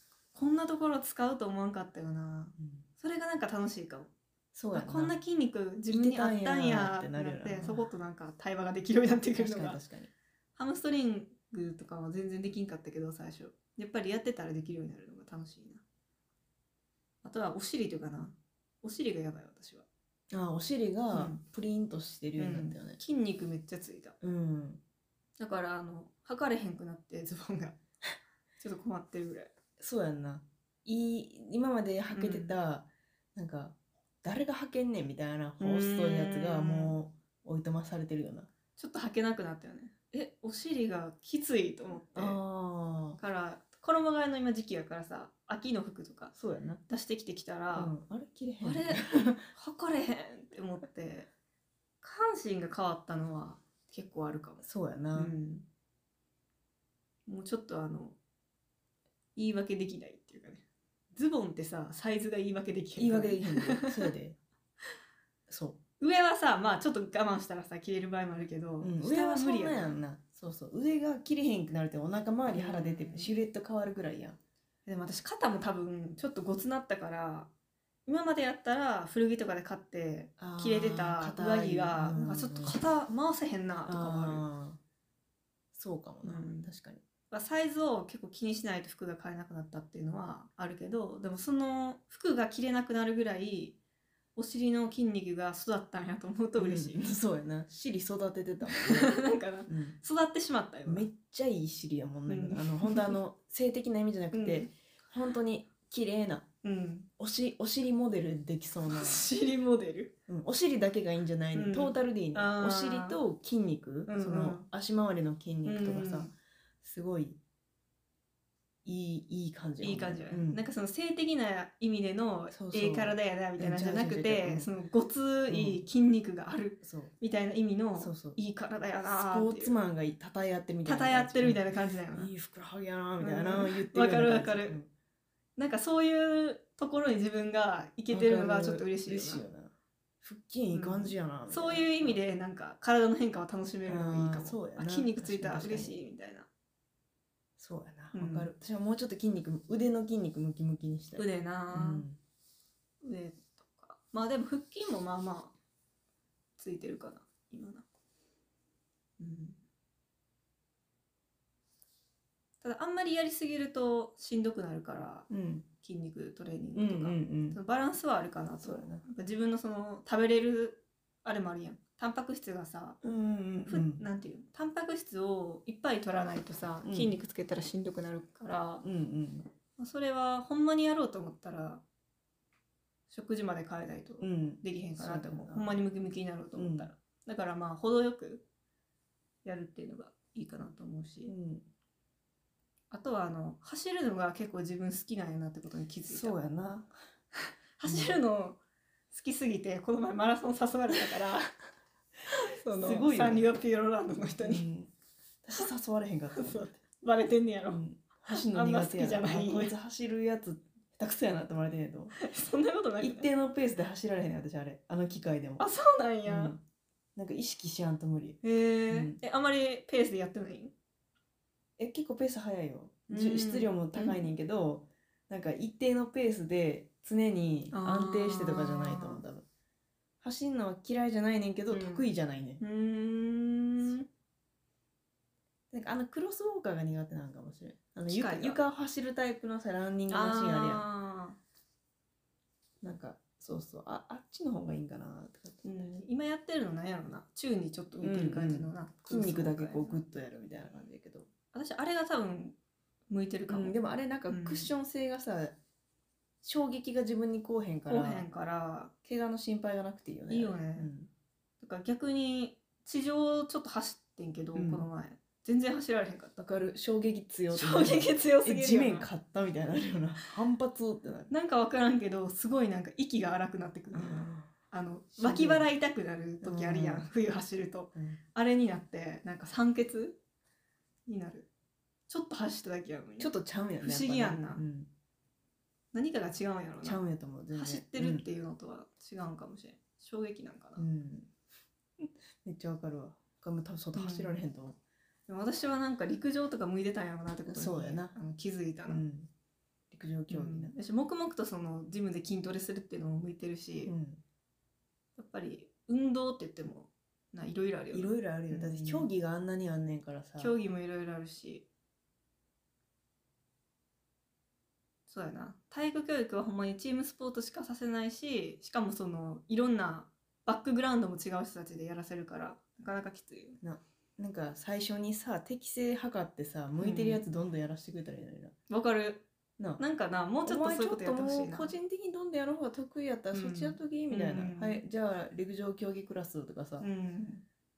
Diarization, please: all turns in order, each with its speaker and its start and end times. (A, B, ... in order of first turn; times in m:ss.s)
0:00.3-0:04.1 A
0:02.6-0:02.8 B
0:04.5-0:05.2 B
0:04.7-0:09.8 A
0:05.9-0:07.9 B
0:09.4-0:10.1 B
0:10.6-0:15.8 A
0:17.2-0:19.8 A
0:20.3-0:23.0 B
0:21.1-0:21.4 A
0:22.4-0:24.2 A
0:24.2-0:24.8 B
0:25.4-0:27.8 A
0:28.6-0:29.5 A
0:29.8-0:38.5 B
0:32.1-0:32.6 A
0:35.6-0:37.0 A
0:38.8-0:42.4 A
0:42.2-0:43.2 B
0:43.2-0:46.3 A
0:46.3-0:46.8 B
0:46.9-0:47.9 A
0:47.7-0:49.5 B
0:48.6-0:51.3 A
0:52.0-0:55.6 A
0:54.6-0:55.3 B
0:57.3-0:58.2 A
0:59.4-1:04.1 A
1:03.0-1:04.4 B
1:05.5-1:05.8 B
1:06.0-1:10.0 A
1:08.8-1:14.4 B
1:12.5-1:13.3 A
1:14.9-1:17.5 A
1:18.1-1:24.4 A
1:20.4-1:22.8 B
1:23.9-1:24.8 B
1:25.7-1:27.0 B
1:26.2-1:26.7 A
1:27.3-1:33.8 A
1:34.4-1:37.0 A
1:36.6-1:40.0 B
1:38.7-1:41.1 A
1:40.9-1:46.5 B
1:42.3-1:43.2 A
1:44.3-1:44.7 A
1:46.6-1:47.1 A
1:47.2-1:49.3 B
1:48.9-1:50.2 A
1:50.3-1:57.4 B
1:51.5-1:53.2 A
1:54.1-1:54.6 A
1:55.6-1:56.3 A
1:58.8-2:00.6 B
1:59.8-2:09.8 A
2:02.5-2:04.7 B
2:05.5-2:05.9 B
2:06.8-2:07.1 B
2:08.0-2:08.4 B
2:09.1-2:14.9 B
2:10.9-2:12.3 A
2:13.2-2:14.8 A
2:15.6-2:19.4 A
2:18.1-2:22.2 B
2:20.7-2:26.5 A
2:23.8-2:26.0 B
2:27.6-2:32.2 B
2:28.1-2:28.5 A
2:31.2-2:32.1 A
2:33.0-2:35.5 A
2:36.6-2:37.8 A
2:39.2-2:39.6 A
2:42.6-2:45.3 A
2:45.3-2:45.7 B
2:45.8-2:53.0 A
2:46.8-2:47.6 B
2:48.6-2:49.0 B
2:53.0-2:54.0 B
2:53.7-2:58.8 A
2:56.8-2:57.2 B
2:58.8-2:59.5 B
2:59.8-3:01.8 A
3:03.1-3:08.4 A
3:04.2-3:05.8 B
3:06.6-3:06.9 B
3:09.4-3:11.3 A
3:11.3-3:11.6 B
3:12.9-3:16.4 A
3:16.1-3:16.9 B
3:17.4-3:18.6 A
3:17.8-3:18.2 B
3:19.1-3:21.5 A
3:22.3-3:24.7 A
3:22.8-3:23.5 B
3:24.4-3:24.9 B
3:25.4-3:26.8 B
3:26.4-3:29.8 A
3:27.7-3:32.2 B
3:32.2-3:33.3 A
3:33.0-3:35.6 B
3:35.6-3:36.6 A
3:36.2-3:36.6 B
3:37.2-3:39.2 B
3:38.4-3:40.7 A
3:41.8-3:49.4 B
3:43.1-3:44.3 A
3:47.7-3:49.2 A
3:50.2-3:52.6 B
3:51.7-3:52.1 A
3:52.6-3:54.1 A
3:55.7-4:00.8 B
3:58.1-3:58.6 A
4:00.1-4:01.4 A
4:02.8-4:06.0 B
4:05.6-4:10.0 A
4:08.0-4:11.3 B
4:11.5-4:12.6 A
4:13.1-4:14.7 A
4:13.5-4:15.6 B
4:16.4-4:18.2 B
4:17.9-4:18.9 A
4:19.0-4:21.1 B
4:20.3-4:20.9 A
4:21.6-4:26.4 A
4:24.5-4:24.9 B
4:26.4-4:31.3 B
4:27.5-4:29.1 A
4:31.3-4:40.2 A
4:33.9-4:34.5 B
4:35.2-4:35.7 B
4:36.4-4:37.1 B
4:38.0-4:38.2 B
4:41.1-4:41.5 A
4:42.1-4:44.6 A
4:43.2-4:44.9 B
4:45.9-4:47.0 A
4:46.8-4:48.2 B
4:47.5-4:50.9 A
4:50.8-4:51.3 B
4:52.0-4:54.8 B
4:53.9-4:54.4 A
4:55.3-4:59.0 A
4:57.5-4:58.2 B
4:58.9-4:59.3 B
4:59.9-5:00.7 B
5:00.3-5:03.9 A
5:03.8-5:04.2 B
5:05.2-5:09.1 A
5:07.9-5:10.6 B
5:10.4-5:11.6 A
5:15.1-5:23.6 A
5:23.6-5:28.6 B
5:26.8-5:27.2 A
5:28.7-5:29.2 A
5:29.8-5:31.7 A
5:30.4-5:36.9 B
5:33.3-5:34.8 A
5:36.8-5:37.4 A